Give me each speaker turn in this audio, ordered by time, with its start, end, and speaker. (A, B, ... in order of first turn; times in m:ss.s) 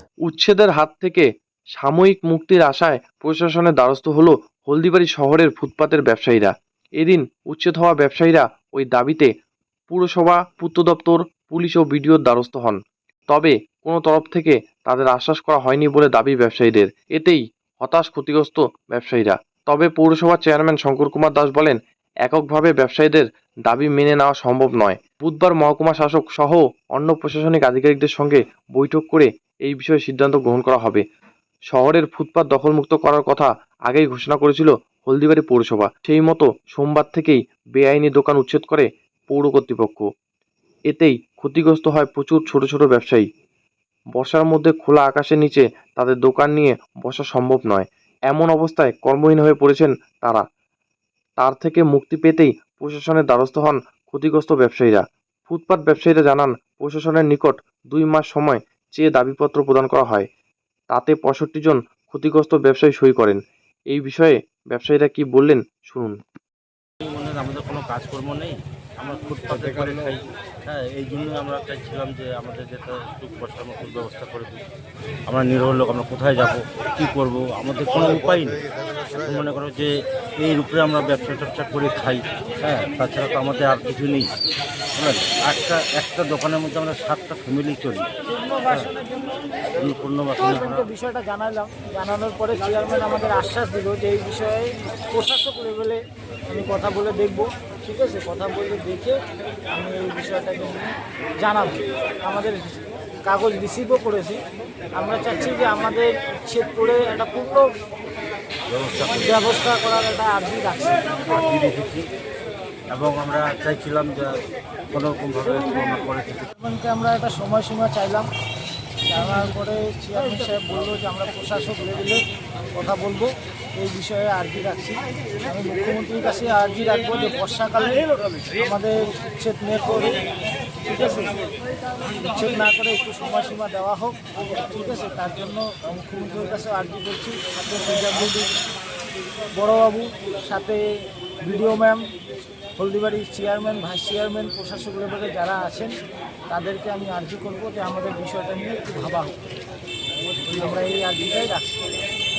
0:00.2-0:01.3 A
0:01.8-0:09.3 A
0:09.9-0:12.8 A
0:13.3-0:31.0 A
0:31.7-0:40.1 A
0:40.9-0:43.3 A
0:44.2-0:50.4 A
0:51.4-1:00.2 A
1:00.9-1:03.4 A
1:03.9-1:06.2 A
1:07.0-1:14.6 B
1:15.3-1:18.6 B
1:19.2-1:24.3 B
1:25.0-1:28.1 B
1:28.3-1:29.3 C
1:29.8-1:30.9 B
1:30.4-1:39.2 C
1:39.7-1:44.4 C
1:45.0-1:47.7 C
1:48.7-1:49.4 B
1:49.1-1:51.2 C
1:51.3-1:52.0 B
1:52.9-1:54.4 B
1:54.9-1:56.5 B
1:56.6-1:58.3 C
1:59.1-2:02.2 C
2:02.8-2:08.1 C
2:08.6-2:10.2 C
2:10.8-2:11.4 C
2:12.2-2:18.5 C
2:19.6-2:20.8 C
2:21.4-2:22.0 C
2:22.8-2:25.9 C
2:26.5-2:29.4 C
2:30.5-2:31.8 C